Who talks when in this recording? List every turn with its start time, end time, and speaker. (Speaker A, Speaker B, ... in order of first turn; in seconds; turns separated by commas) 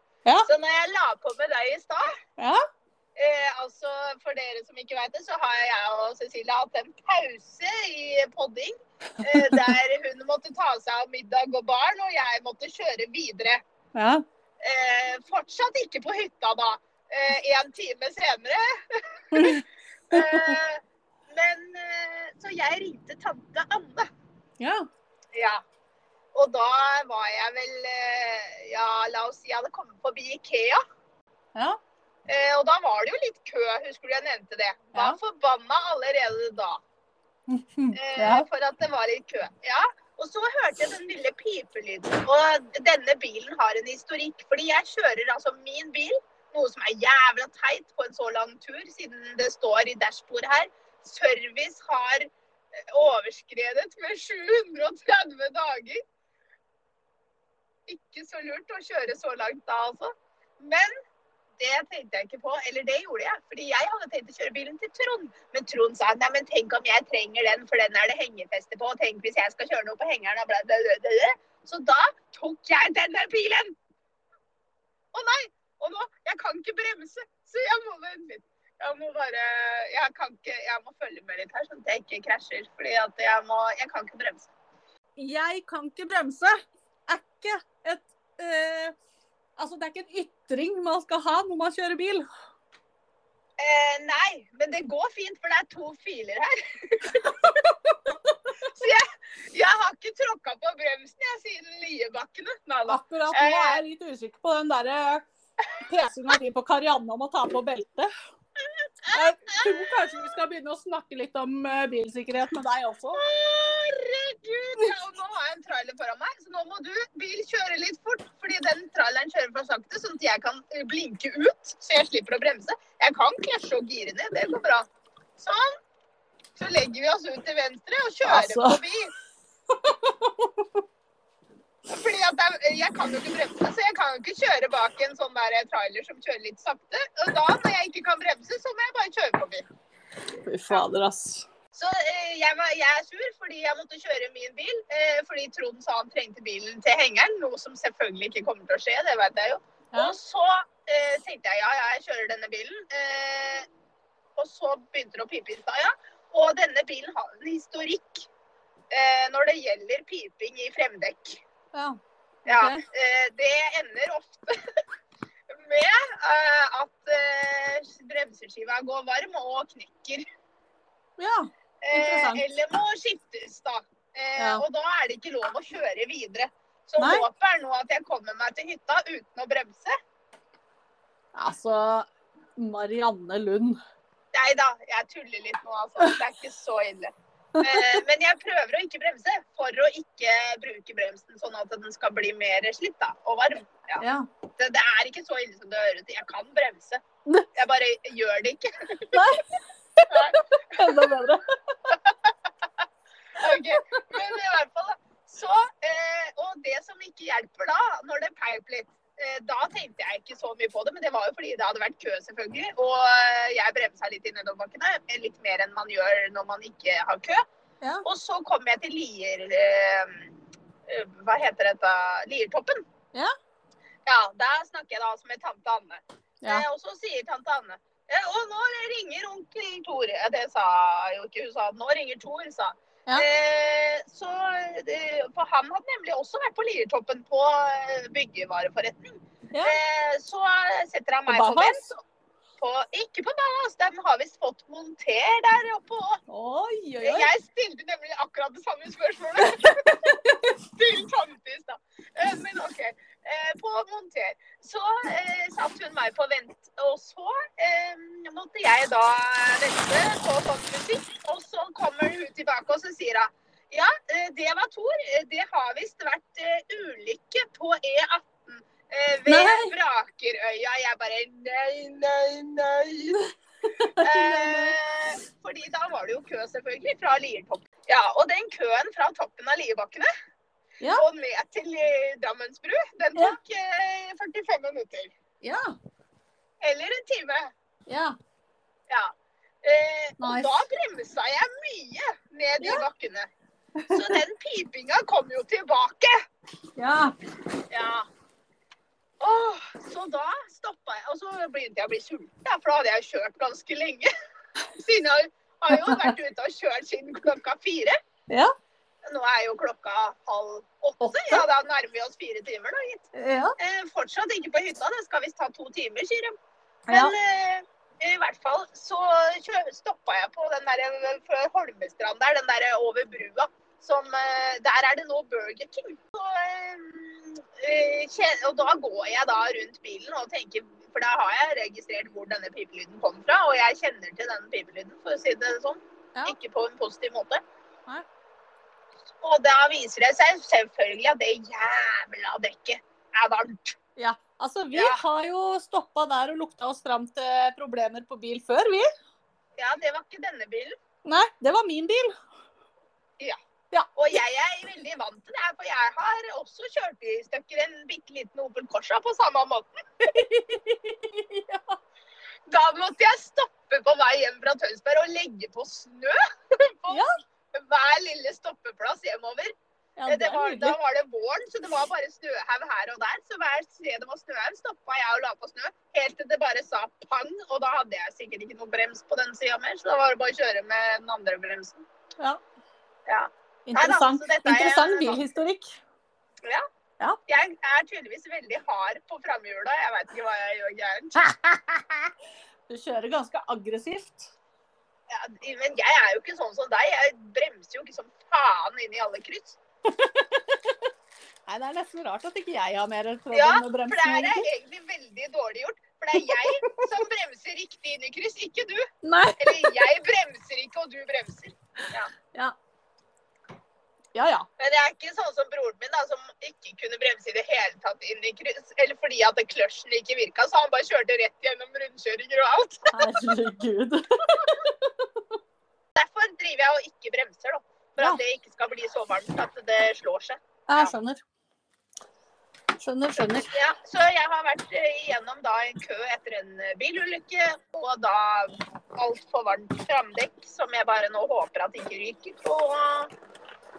Speaker A: 0.4-2.1, Speaker A: 3.2-13.6, Speaker B: 9.2-9.8, Speaker B: 13.9-14.2, Speaker A: 14.6-24.1, Speaker B: 19.3-20.6, Speaker B: 24.6-24.9, Speaker A: 25.3-25.6, Speaker A: 26.3-30.8, Speaker A: 32.3-36.8, Speaker B: 37.5-38.5, Speaker A: 37.9-56.0, Speaker A: 57.9-60.9, Speaker A: 61.6-73.7, Speaker A: 75.1-84.5, Speaker B: 85.2-86.6, Speaker B: 87.1-89.0, Speaker B: 89.6-92.3, Speaker A: 93.6-97.5, Speaker B: 97.2-98.7, Speaker A: 98.6-103.8, Speaker B: 102.9-105.2, Speaker B: 105.8-108.1, Speaker A: 108.6-110.3, Speaker B: 109.1-113.3, Speaker A: 113.1-124.9, Speaker A: 125.4-125.8, Speaker A: 126.6-129.1, Speaker B: 128.2-128.8, Speaker B: 129.7-130.8, Speaker A: 131.9-139.6, Speaker B: 140.4-141.5, Speaker A: 141.7-153.7, Speaker A: 154.4-158.3, Speaker A: 158.9-161.4, Speaker B: 161.7-162.8, Speaker A: 162.5-164.6, Speaker A: 165.5-170.2, Speaker B: 171.2-172.4, Speaker A: 171.8-179.9, Speaker B: 174.4-174.6, Speaker B: 177.0-177.3, Speaker B: 181.3-183.8, Speaker A: 184.3-194.1, Speaker B: 187.6-188.0, Speaker B: 194.0-194.3, Speaker A: 194.6-197.0, Speaker A: 197.5-199.4, Speaker B: 199.1-201.9, Speaker A: 200.1-201.0, Speaker A: 201.9-202.7, Speaker A: 203.4-217.4, Speaker B: 203.4-204.2, Speaker A: 218.0-220.3, Speaker A: 220.9-222.8, Speaker A: 224.1-241.8, Speaker B: 241.3-241.9, Speaker A: 242.6-246.2, Speaker B: 246.3-247.3, Speaker A: 247.0-273.2, Speaker B: 249.4-250.4, Speaker B: 269.3-269.7, Speaker B: 273.1-274.8, Speaker A: 274.0-280.1, Speaker A: 280.9-285.1, Speaker B: 285.4-285.7, Speaker A: 286.6-287.5, Speaker B: 287.9-288.1, Speaker A: 288.9-293.3, Speaker B: 290.2-290.6, Speaker B: 292.6-292.9, Speaker B: 293.8-294.1, Speaker A: 293.9-296.2, Speaker B: 296.8-297.1, Speaker A: 297.7-298.1, Speaker A: 299.2-304.1, Speaker A: 304.7-307.9, Speaker B: 305.7-306.1, Speaker A: 309.1-316.4, Speaker B: 311.0-311.4, Speaker B: 313.1-313.6, Speaker B: 316.9-317.1, Speaker A: 316.9-337.4, Speaker A: 339.2-343.8, Speaker B: 344.0-348.9, Speaker A: 344.7-345.0, Speaker A: 349.6-350.8, Speaker B: 351.1-352.2, Speaker A: 353.9-360.1, Speaker B: 360.0-361.8, Speaker A: 362.5-369.5, Speaker B: 370.0-370.8, Speaker A: 370.1-381.8, Speaker A: 383.1-385.2, Speaker B: 383.7-385.8, Speaker A: 387.3-391.3, Speaker B: 391.2-392.1, Speaker B: 392.7-394.3, Speaker A: 395.1-399.6, Speaker B: 399.9-400.9, Speaker B: 401.5-404.5, Speaker A: 403.3-408.9, Speaker B: 406.1-407.0, Speaker B: 409.0-409.9, Speaker A: 409.4-412.1, Speaker B: 414.1-414.5, Speaker A: 414.6-423.0, Speaker B: 422.9-425.4, Speaker A: 425.9-430.9, Speaker B: 430.7-431.2, Speaker B: 432.8-433.5, Speaker A: 433.1-443.1